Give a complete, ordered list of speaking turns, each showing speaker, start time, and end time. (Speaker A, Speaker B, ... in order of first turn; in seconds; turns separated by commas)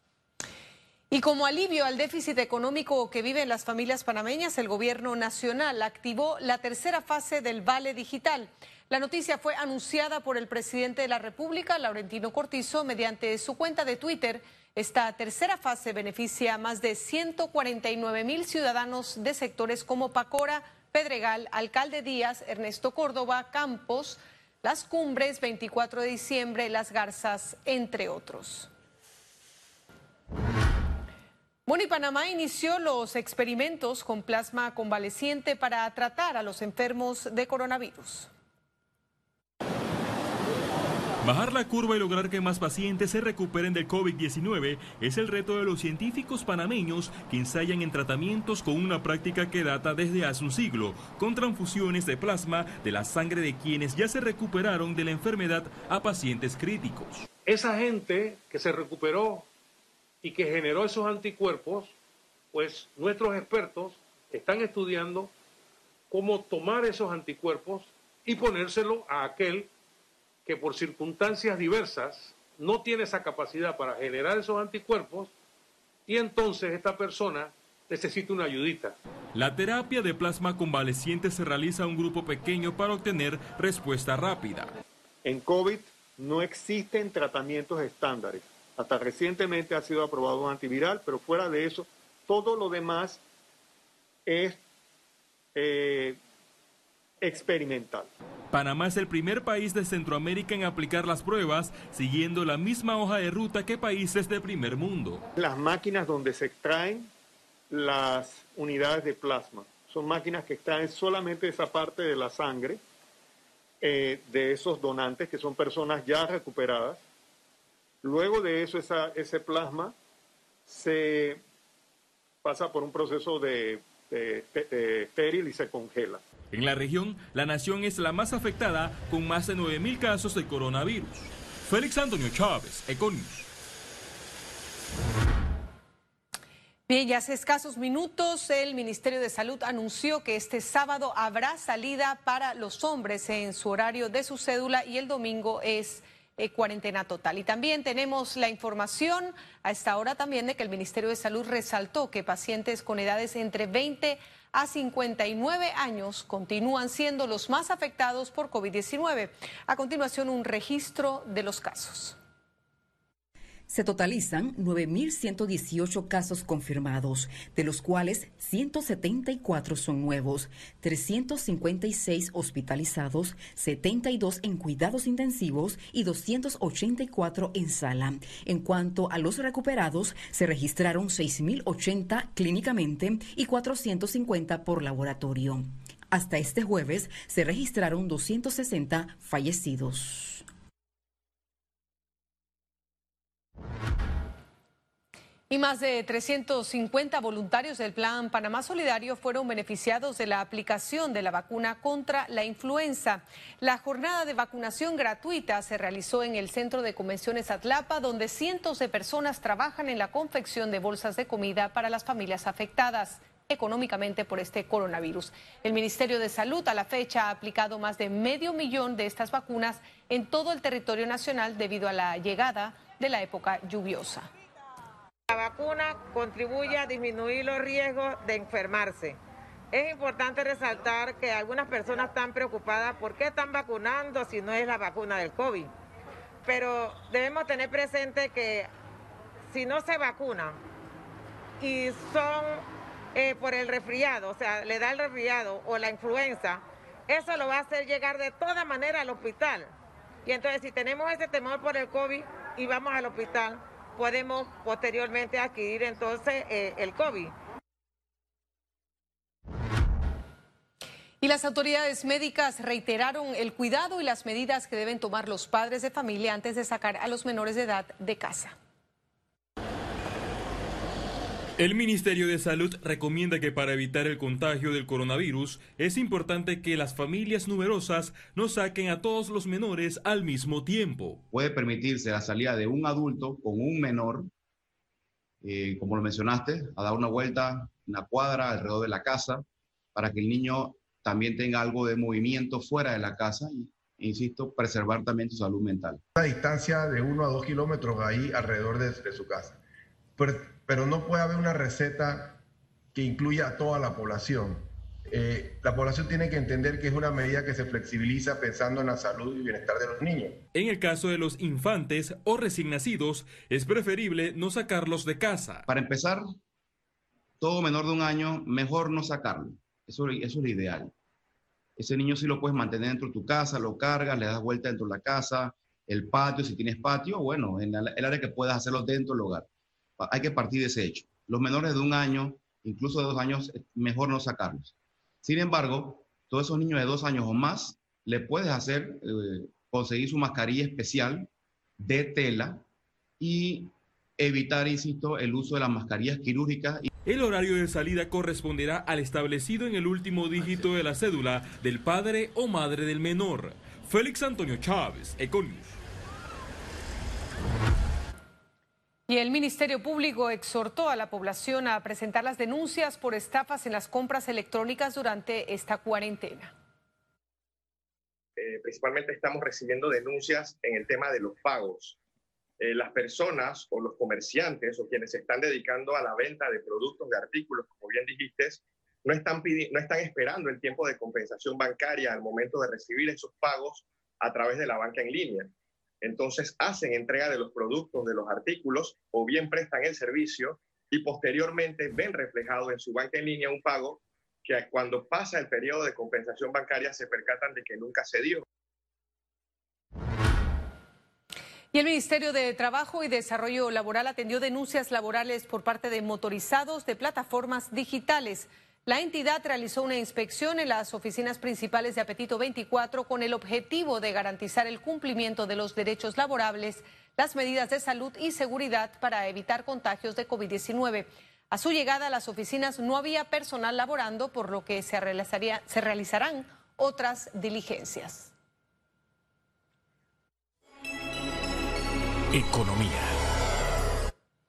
Speaker A: 1.1-28.7, Speaker A: 31.7-38.3, Speaker B: 41.2-57.2, Speaker C: 57.5-59.5, Speaker C: 60.2-61.9, Speaker C: 62.5-65.3, Speaker C: 66.1-69.7, Speaker C: 70.5-75.3, Speaker C: 76.1-79.0, Speaker B: 79.3-84.7, Speaker D: 85.2-93.2, Speaker D: 94.2-94.6, Speaker D: 95.5-96.2, Speaker D: 97.2-98.1, Speaker B: 98.5-105.2, Speaker D: 105.4-107.1, Speaker D: 107.7-112.8, Speaker D: 113.8-117.0, Speaker D: 118.0-119.9, Speaker D: 120.7-121.4, Speaker D: 122.4-126.2, Speaker B: 126.5-133.5, Speaker A: 136.9-162.2, Speaker E: 163.7-190.4, Speaker A: 195.5-224.3, Speaker F: 225.3-229.2, Speaker F: 229.7-235.7, Speaker F: 236.4-238.7, Speaker F: 239.5-240.6, Speaker F: 241.6-249.7, Speaker F: 250.2-257.3, Speaker A: 261.2-268.5, Speaker B: 271.6-281.2, Speaker G: 281.3-284.3, Speaker G: 285.4-289.4, Speaker G: 289.9-296.0, Speaker H: 296.1-299.6, Speaker H: 300.2-302.4, Speaker H: 302.9-310.3, Speaker B: 310.5-315.6, Speaker G: 315.7-316.2, Speaker G: 317.4-320.9, Speaker G: 321.8-329.5, Speaker G: 330.0-342.6, Speaker G: 343.2-346.9, Speaker B: 347.1-355.8, Speaker A: 359.1-366.5, Speaker I: 368.4-372.0, Speaker I: 372.6-385.5, Speaker I: 386.0-398.4, Speaker A: 401.7-428.3